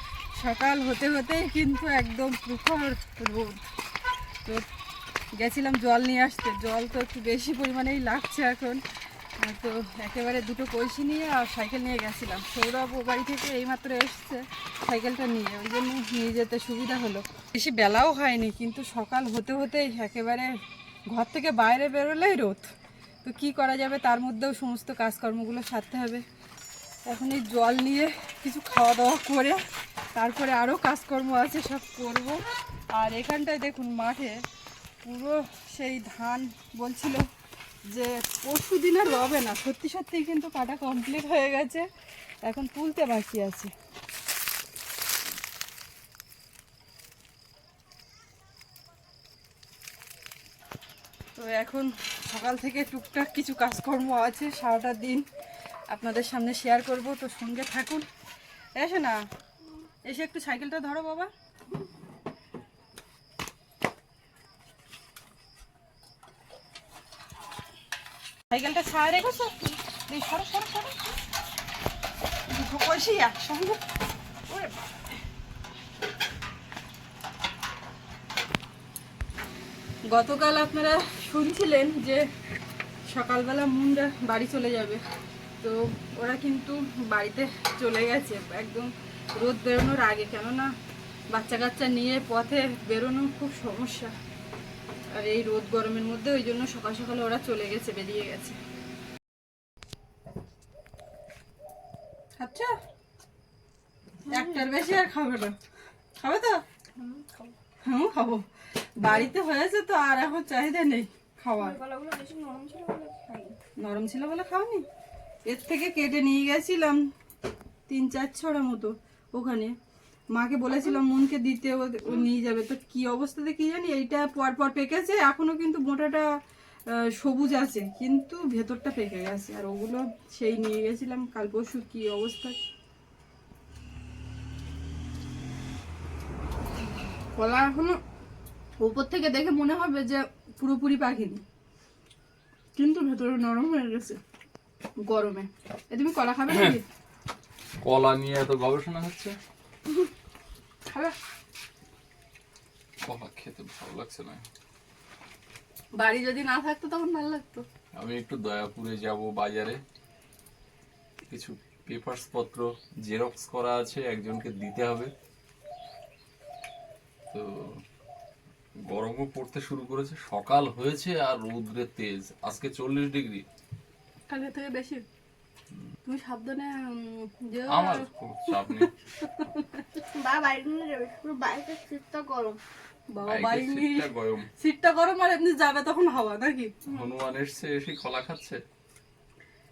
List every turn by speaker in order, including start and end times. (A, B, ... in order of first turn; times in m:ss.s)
0:00.3-0:03.6 A
0:05.3-0:08.8 A
0:09.4-0:20.5 A
0:21.1-0:22.7 A
0:23.2-0:26.2 A
0:27.0-0:29.6 A
0:30.1-0:34.4 A
0:35.0-0:37.2 A
0:37.9-0:41.9 A
0:42.4-0:43.7 A
0:51.4-0:55.2 A
0:55.9-0:58.1 A
0:58.8-0:59.2 A
1:00.0-1:01.3 A
1:08.5-1:09.6 A
1:10.1-1:11.0 A
1:12.5-1:13.8 A
1:20.1-1:22.2 A
1:23.1-1:25.0 A
1:25.6-1:30.7 A
1:31.3-1:34.1 A
1:35.1-1:38.6 A
1:42.4-1:42.7 A
1:44.2-1:44.7 B
1:44.3-1:45.6 A
1:46.2-1:46.6 A
1:46.9-1:47.5 B
1:47.8-1:48.4 A
1:49.0-1:51.8 A
1:49.0-1:49.3 C
1:51.6-1:53.6 B
1:53.8-1:54.8 A
1:55.5-1:57.0 A
1:57.9-1:59.7 A
2:00.3-2:06.2 A
2:00.7-2:01.0 B
2:06.9-2:12.6 A
2:17.3-2:18.0 A
2:18.8-2:21.4 A
2:22.8-2:24.2 A
2:25.0-2:26.8 A
2:26.5-2:26.8 C
2:27.8-2:29.4 C
2:30.9-2:31.1 A
2:33.0-2:34.4 C
2:36.0-2:37.6 A
2:37.9-2:39.8 C
2:41.3-2:45.1 C
2:47.3-2:47.8 C
2:48.8-2:53.4 C
2:54.3-2:55.0 A
2:56.0-2:59.8 A
2:57.7-2:58.9 C
3:00.1-3:02.6 B
3:03.1-3:06.8 A
3:03.2-3:04.5 C
3:06.9-3:08.6 C